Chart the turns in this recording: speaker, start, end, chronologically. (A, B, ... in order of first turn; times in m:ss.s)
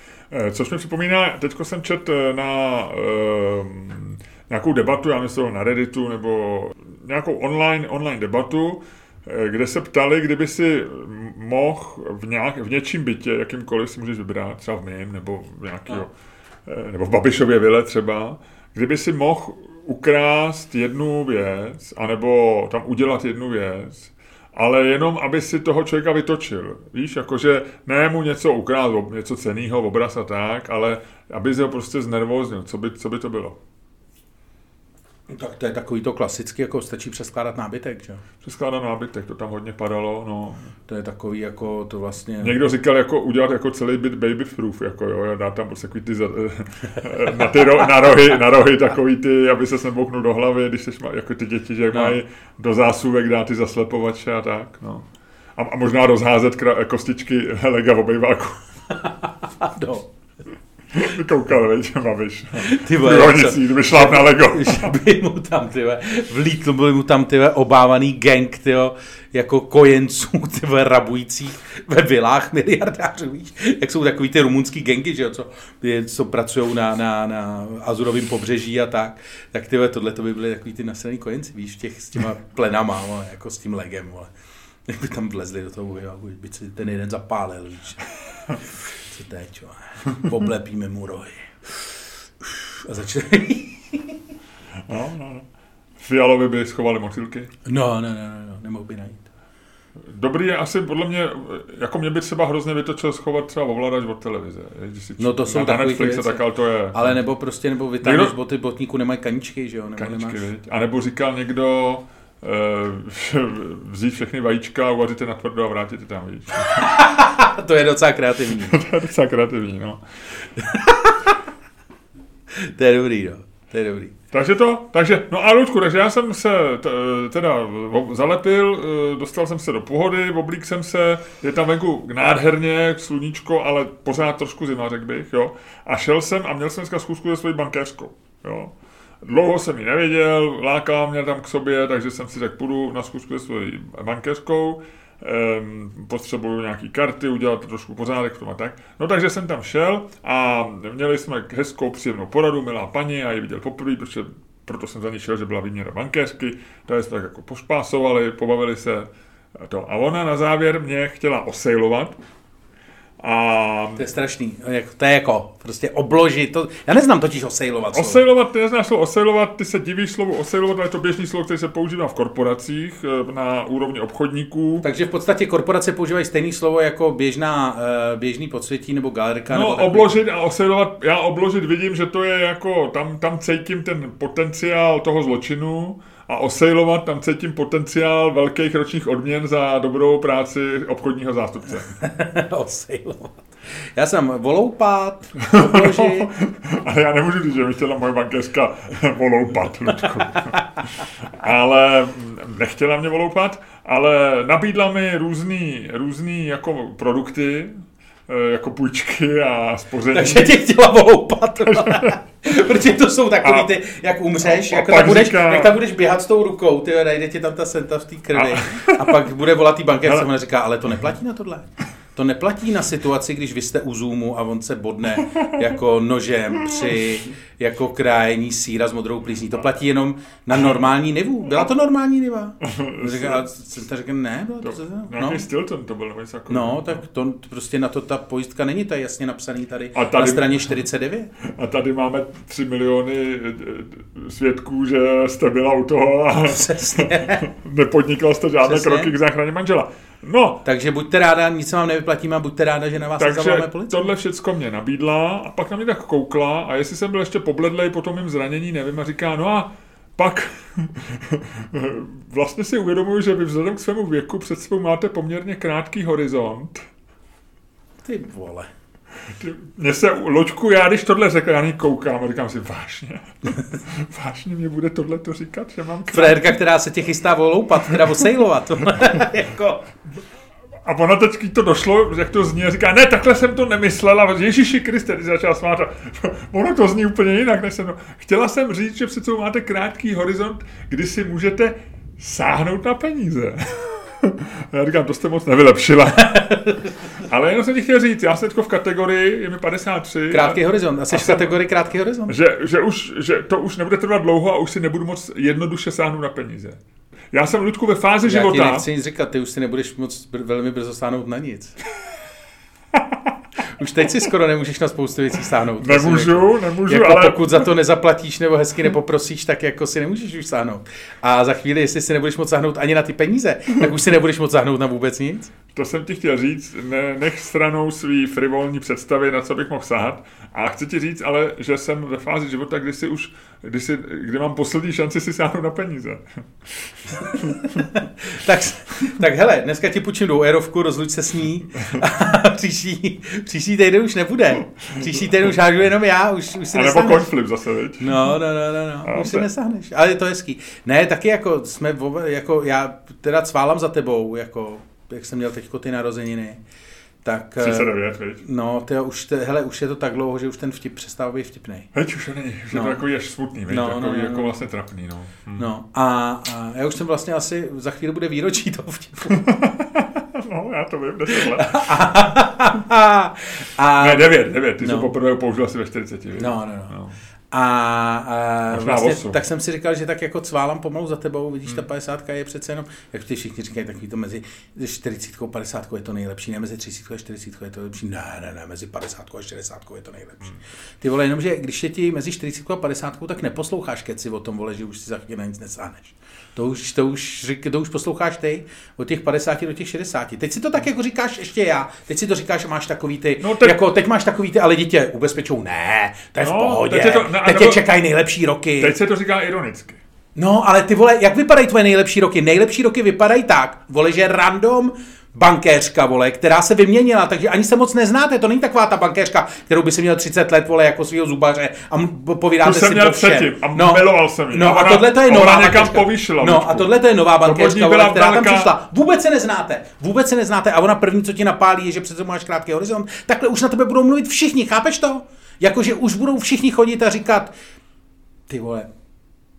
0:00.3-0:16.1 A
0:16.7-0:33.6 A
0:35.3-0:38.2 B
0:38.4-0:40.7 A
0:40.9-0:42.6 B
0:42.4-0:55.0 A
0:51.9-0:52.2 B
0:55.6-0:58.6 A
0:58.9-1:00.1 B
1:00.9-1:05.0 A
1:02.6-1:24.3 B
1:24.9-1:34.2 B
1:34.9-1:35.5 A
1:36.0-1:37.5 A
1:37.7-1:39.3 B
1:40.1-1:47.2 A
1:45.2-1:50.4 B
1:48.0-1:48.3 A
1:50.0-1:56.9 A
1:56.7-1:58.8 B
1:58.7-2:00.0 A
2:00.6-2:01.4 B
2:02.5-2:04.1 B
2:04.3-2:42.2 A
2:43.2-2:44.0 A
2:44.0-2:48.2 B
2:47.9-2:54.9 A
2:54.8-3:00.2 B
2:59.5-3:11.9 A
3:12.0-3:16.3 B
3:15.4-3:20.6 A
3:20.4-3:20.6 B
3:21.2-3:30.6 A
3:30.1-3:55.4 B
3:31.6-3:32.2 A
3:33.4-3:33.7 A
3:34.4-3:35.7 A
3:38.4-3:39.2 A
3:52.6-3:53.5 A
3:54.6-3:57.0 A
3:56.5-4:01.3 B
3:59.9-4:00.8 A
4:01.4-4:10.6 A
4:06.5-4:07.4 B
4:08.6-4:09.1 B
4:10.6-4:14.0 B
4:13.1-4:26.8 A
4:28.0-4:28.7 B
4:29.4-4:36.4 A
4:36.1-4:39.8 B
4:40.8-4:56.5 A
4:56.2-4:56.9 B
4:57.2-5:01.6 A
5:00.3-5:02.4 B
5:02.3-5:06.8 A
5:07.3-5:08.9 A
5:08.2-5:11.8 B
5:12.9-5:13.3 A
5:13.7-5:25.5 B
5:15.8-5:17.6 A
5:25.7-5:37.9 A
5:37.8-5:47.3 B
5:46.7-5:48.3 A
5:48.0-5:56.6 B
5:49.0-5:49.5 A
5:57.2-6:01.9 B
5:57.6-5:58.4 A
6:01.9-6:05.7 A
6:02.7-6:03.0 B
6:03.7-6:04.5 B
6:05.6-6:09.4 B
6:09.3-6:12.0 A
6:11.3-6:15.1 B
6:13.9-6:17.2 A
6:16.4-6:16.9 B
6:17.5-6:49.0 B
6:18.7-6:19.4 A
6:43.4-6:43.8 A
6:46.4-6:47.8 A
6:48.8-6:50.0 A
6:50.4-7:17.5 B
7:02.6-7:08.7 A
7:18.5-7:18.9 B